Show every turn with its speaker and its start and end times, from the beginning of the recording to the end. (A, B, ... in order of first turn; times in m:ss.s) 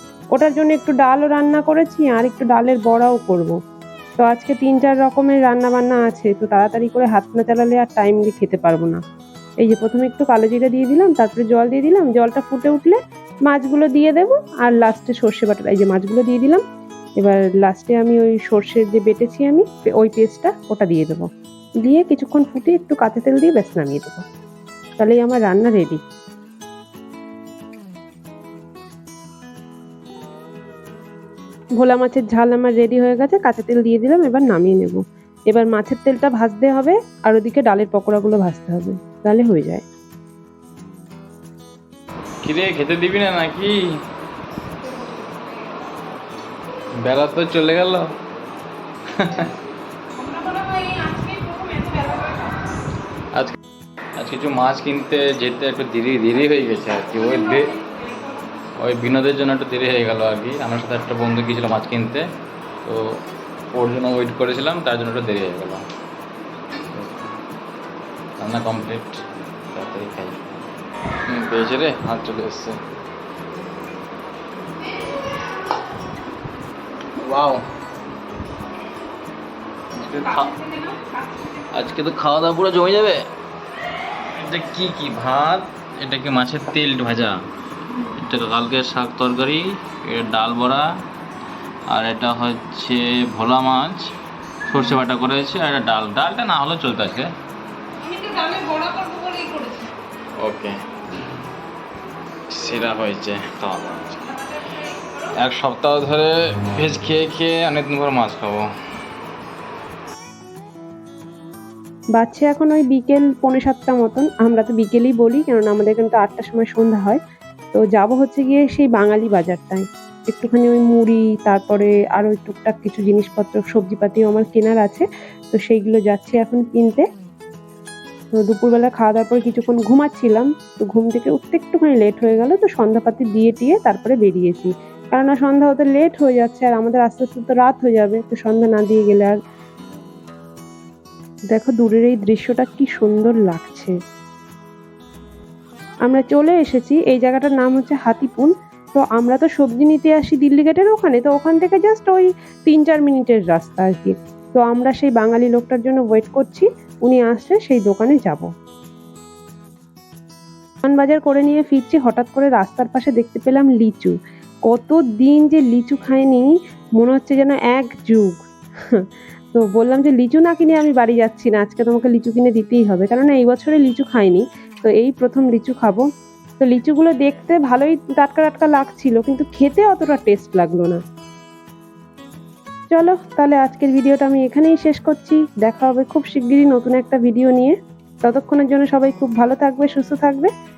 0:00.4-0:03.6 A
0:04.2-0:09.0 A
0:09.6-0:13.0 A
0:13.5-0:16.6 A
0:17.2-0:21.3 A
0:21.8-0:24.2 A
0:25.0-0:26.0 A
0:31.8-0:39.8 A
0:42.4-0:43.8 B
0:44.8-0:45.7 C
0:47.0-0:48.1 B
0:49.1-0:49.5 B
0:50.2-0:52.7 C
0:54.2-0:57.7 B
0:57.2-0:58.4 C
0:58.8-1:02.2 B
1:02.8-1:03.2 B
1:03.7-1:05.8 B
1:06.9-1:07.3 B
1:08.4-1:09.2 B
1:09.7-1:10.4 B
1:11.3-1:12.8 B
1:17.2-1:17.6 B
1:19.9-1:20.5 B
1:20.0-1:21.9 C
1:21.7-1:23.3 B
1:24.4-1:27.4 B
1:28.2-1:30.9 B
1:31.9-1:34.1 B
1:34.7-1:37.3 B
1:38.0-1:39.9 C
1:40.4-1:40.7 B
1:42.5-1:44.2 B
1:44.3-1:45.4 C
1:45.4-1:48.6 B
1:52.2-1:57.2 A
1:57.7-2:07.1 A
2:08.4-2:19.4 A
2:21.5-2:24.0 A
2:26.1-2:38.5 A
2:40.8-2:44.2 A
2:44.7-2:56.1 A
2:56.6-3:01.0 A
3:02.9-3:10.5 A